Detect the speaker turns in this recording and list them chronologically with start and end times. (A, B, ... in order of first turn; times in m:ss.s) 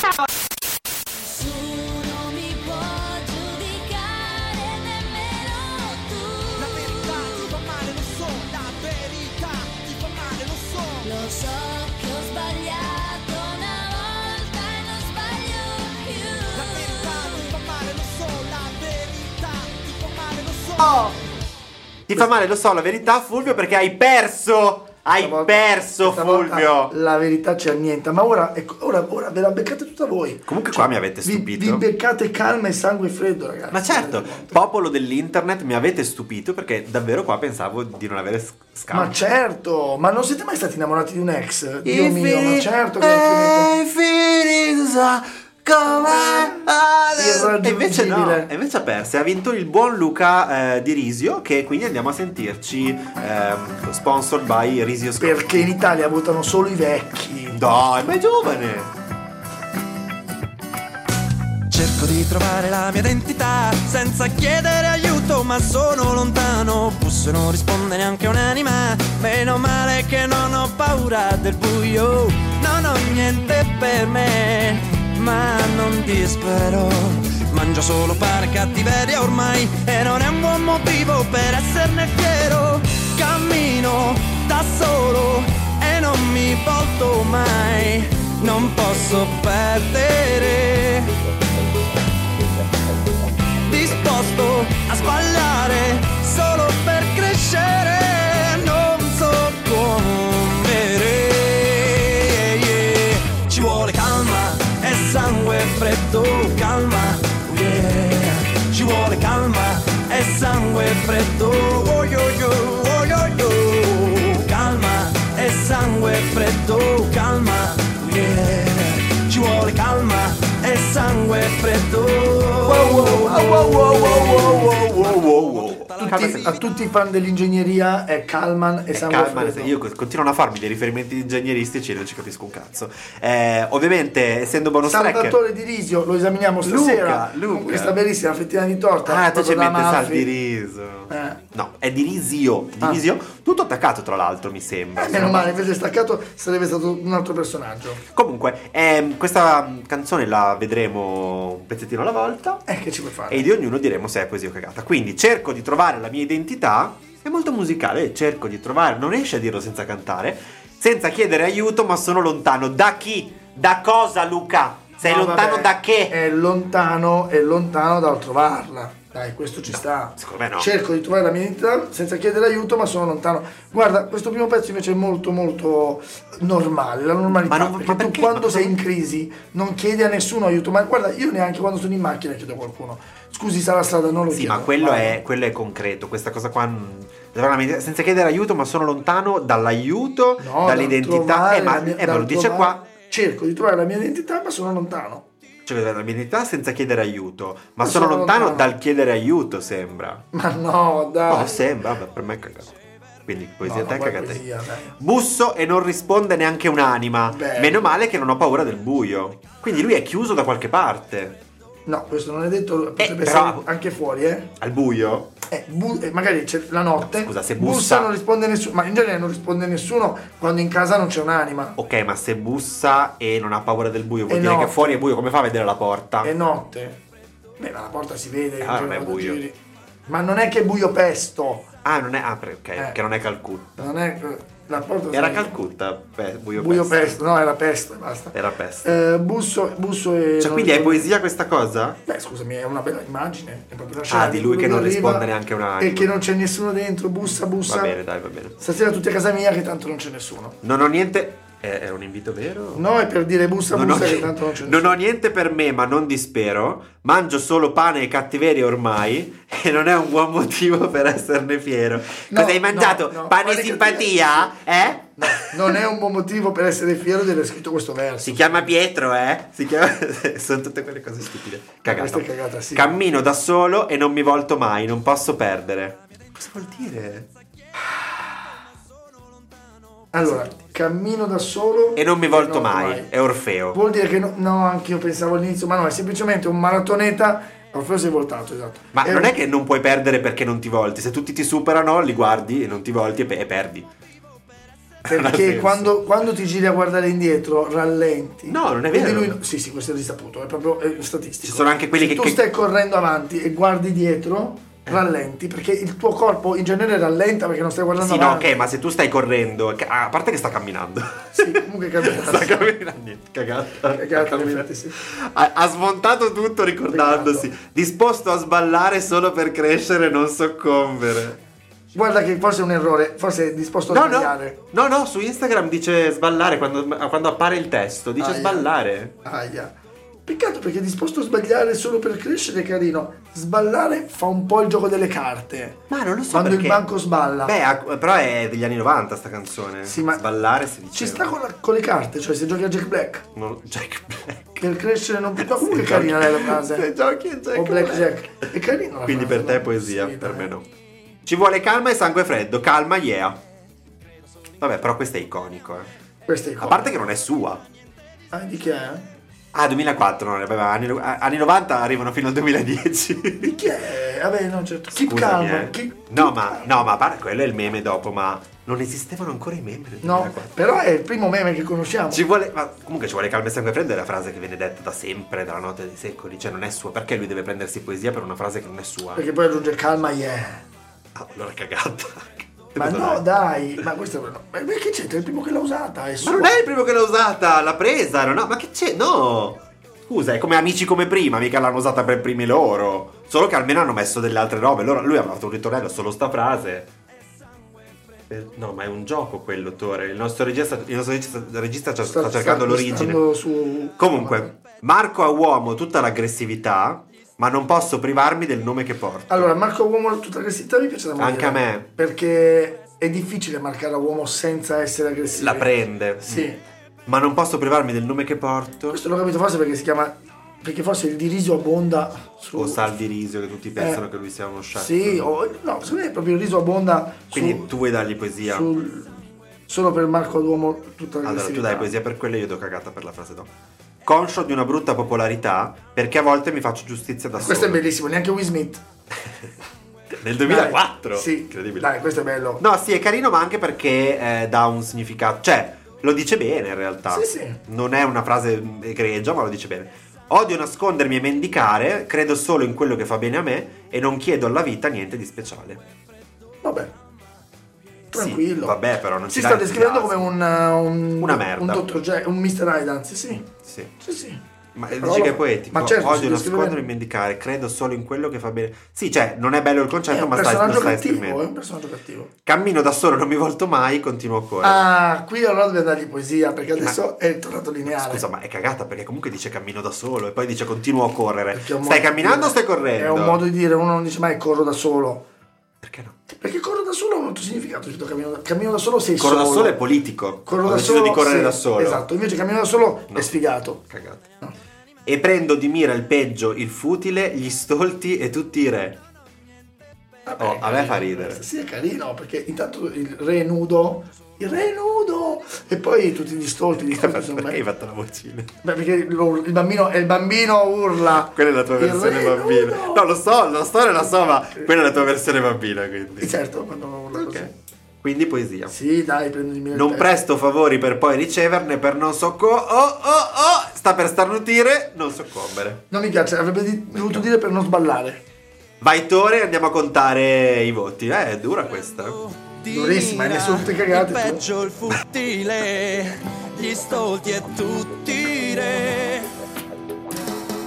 0:01.2-0:07.5 A
0:06.6-0:10.9 B
0:11.0-0:17.5 A
0:17.1-0:20.8 B
0:19.7-0:20.0 C
0:20.8-0:21.1 D
0:22.1-0:26.9 D
0:25.1-0:34.6 E
0:30.5-0:31.8 D
0:33.7-0:39.2 D
0:38.9-0:43.7 E
0:41.8-0:55.9 D
0:45.9-0:48.5 E
0:55.2-0:57.6 E
0:57.5-0:58.9 D
1:01.7-1:31.1 C
1:33.6-2:06.6 C
2:02.6-2:05.1 E
2:02.9-2:06.6 D
2:06.0-2:09.7 E
2:08.9-2:15.4 D
2:14.8-2:20.3 E
2:16.6-2:18.0 D
2:19.0-2:25.6 D
2:21.1-2:21.4 E
2:24.9-2:28.0 E
2:28.1-2:32.6 D
2:32.6-2:33.5 E
2:33.3-2:46.2 D
2:45.0-3:05.2 E
2:49.7-2:50.7 D
2:57.3-2:58.8 D
3:04.3-3:12.8 D
3:10.4-3:15.2 E
3:15.6-3:20.2 D
3:17.8-3:18.7 E
3:20.3-3:21.6 E
3:21.3-3:24.4 D
3:23.6-3:25.0 E
3:25.0-3:31.4 D
3:27.3-3:27.9 E
3:31.8-3:34.5 E
3:33.0-3:33.6 D
3:34.6-3:35.3 D
3:35.5-3:41.8 E
3:37.0-3:38.1 D
3:41.8-3:46.3 D
3:44.3-3:45.0 E
3:46.2-3:47.0 E
3:47.6-3:51.6 E
3:48.6-3:49.4 D
3:51.8-3:53.7 D
3:53.8-3:55.5 E
3:55.1-3:57.2 D
3:56.6-4:01.1 E
3:58.3-3:58.9 D
4:00.4-4:02.0 D
4:02.0-4:08.0 E
4:04.1-4:06.2 D
4:07.2-4:08.6 D
4:08.6-4:10.6 E
4:10.6-4:12.8 D
4:12.7-4:14.9 E
4:13.7-4:25.6 D
4:22.3-4:28.7 E
4:28.2-4:37.3 D
4:31.8-4:33.0 E
4:40.1-4:43.1 E
4:42.0-4:43.8 D
4:43.7-4:49.3 E
4:48.9-4:53.9 D
4:55.0-4:56.0 D
4:55.0-5:08.5 E
4:58.4-4:59.4 D
5:01.4-5:02.4 D
5:08.0-5:21.4 D
5:11.3-5:12.7 E
5:13.9-5:15.0 E
5:16.9-5:17.5 E
5:21.9-5:24.6 E
5:23.9-5:29.1 D
5:28.2-5:28.7 E
5:29.2-5:29.7 E
5:30.2-5:35.8 E
5:35.9-5:36.8 D
5:36.3-5:37.5 E
5:37.4-5:41.3 D
5:39.8-5:40.2 E
5:40.9-5:43.2 E
5:43.3-5:44.4 D
5:44.5-5:46.9 E
5:45.4-5:48.4 D
5:47.5-5:50.5 E
5:49.0-5:50.6 D
5:51.2-5:53.4 D
5:54.6-5:55.9 D
5:56.2-5:57.0 E
5:56.6-5:57.6 D
5:58.3-5:59.1 E
5:59.5-6:03.7 D
6:03.4-6:06.7 E
6:04.9-6:10.5 D
6:10.0-6:12.2 E
6:12.1-6:19.2 D
6:19.1-6:20.6 E
6:21.1-6:23.2 D
6:22.8-6:26.6 E
6:26.2-6:36.9 D
6:38.3-6:43.2 D
6:42.1-6:44.5 E
6:44.0-6:49.5 D
6:49.3-6:55.7 E
6:51.2-6:51.9 D
6:55.3-6:56.5 D
6:56.2-6:56.6 E
6:57.0-6:59.0 D
6:58.9-7:02.9 E
7:02.6-7:05.3 D
7:03.8-7:04.0 E
7:04.7-7:07.7 E
7:07.3-7:08.7 D
7:08.4-7:11.9 E
7:11.2-7:13.5 D
7:14.0-7:17.8 D
7:17.4-7:18.8 E
7:20.2-7:21.9 D
7:20.4-7:22.6 E
7:22.6-7:35.8 D
7:27.1-7:27.6 E
7:36.6-7:36.9 E
7:38.1-7:40.3 D
7:38.1-7:43.5 E
7:41.2-7:41.9 D
7:43.4-7:43.9 D
7:44.0-7:44.4 E
7:44.7-7:51.4 D
7:45.0-7:46.8 E
7:50.1-7:52.3 E
7:52.4-7:54.9 D
7:54.6-7:58.2 E
7:57.8-8:03.4 D
8:01.5-8:05.2 E
8:05.8-8:06.1 D
8:06.3-8:09.8 E
8:09.2-8:12.1 D
8:10.4-8:13.8 E
8:13.8-8:14.2 D
8:15.0-8:19.0 D
8:20.2-8:27.6 E
8:20.4-8:21.4 D
8:26.8-8:28.5 D
8:28.6-8:33.0 E
8:31.1-8:36.4 D
8:36.2-8:37.5 E
8:37.1-8:38.7 D
8:38.7-8:40.1 E
8:39.7-8:45.8 D
8:45.9-8:48.2 E
8:46.9-8:47.3 D
8:48.8-8:52.2 D
8:51.8-8:59.3 C
8:52.7-8:54.4 E